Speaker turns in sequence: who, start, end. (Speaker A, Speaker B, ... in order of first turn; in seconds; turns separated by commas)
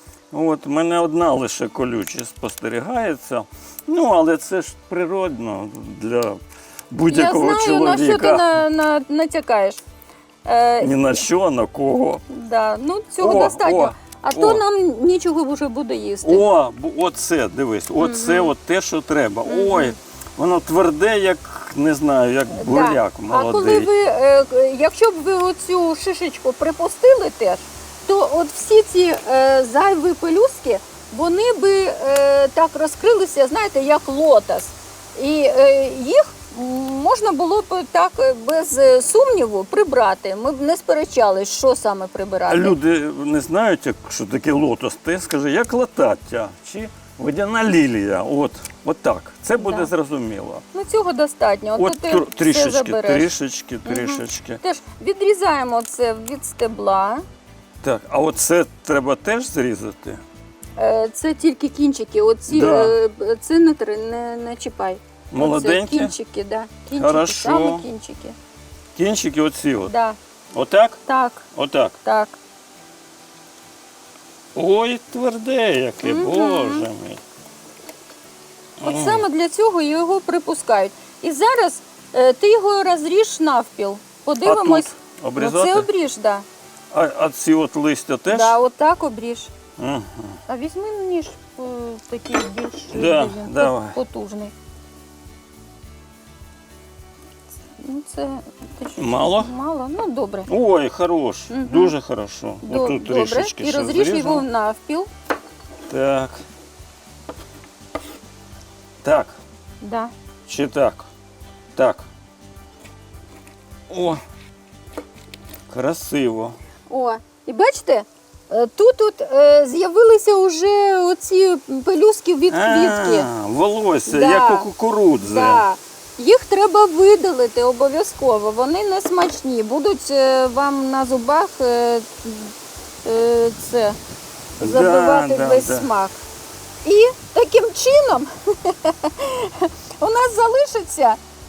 Speaker A: 0.3-8.4, Speaker B: 7.1-9.8, Speaker B: 10.4-11.2, Speaker A: 10.8-12.2, Speaker B: 12.3-16.4, Speaker A: 13.2-14.6, Speaker A: 16.2-23.9, Speaker B: 18.0-18.5, Speaker B: 19.4-20.0, Speaker B: 22.6-42.8, Speaker A: 42.5-50.6, Speaker B: 49.6-49.9, Speaker B: 50.7-53.3, Speaker A: 51.8-54.6, Speaker B: 53.8-57.2, Speaker A: 57.8-60.2, Speaker B: 60.8-68.3, Speaker A: 62.5-63.0, Speaker A: 65.3-66.1, Speaker A: 66.9-67.8, Speaker A: 68.9-69.9, Speaker B: 69.9-70.2, Speaker A: 70.5-71.0, Speaker B: 71.1-71.5, Speaker A: 71.5-72.0, Speaker B: 72.0-72.3, Speaker A: 74.5-77.2, Speaker B: 76.0-76.9, Speaker A: 78.8-79.2, Speaker B: 78.8-86.5, Speaker A: 84.4-85.9, Speaker A: 86.9-88.6, Speaker B: 88.3-89.5, Speaker A: 89.8-90.4, Speaker B: 90.5-94.5, Speaker A: 92.9-94.0, Speaker B: 97.8-100.5, Speaker A: 99.0-99.5, Speaker A: 100.5-104.5, Speaker B: 101.5-101.9, Speaker B: 102.6-105.1, Speaker A: 105.9-106.4, Speaker A: 109.0-109.4, Speaker B: 109.8-110.1, Speaker A: 110.5-111.1, Speaker A: 111.7-112.1, Speaker A: 113.9-114.2, Speaker A: 115.7-116.6, Speaker B: 116.9-123.3, Speaker A: 122.5-125.6, Speaker B: 124.1-132.5, Speaker B: 133.0-134.0, Speaker A: 134.6-135.9, Speaker B: 134.6-136.2, Speaker B: 136.8-141.2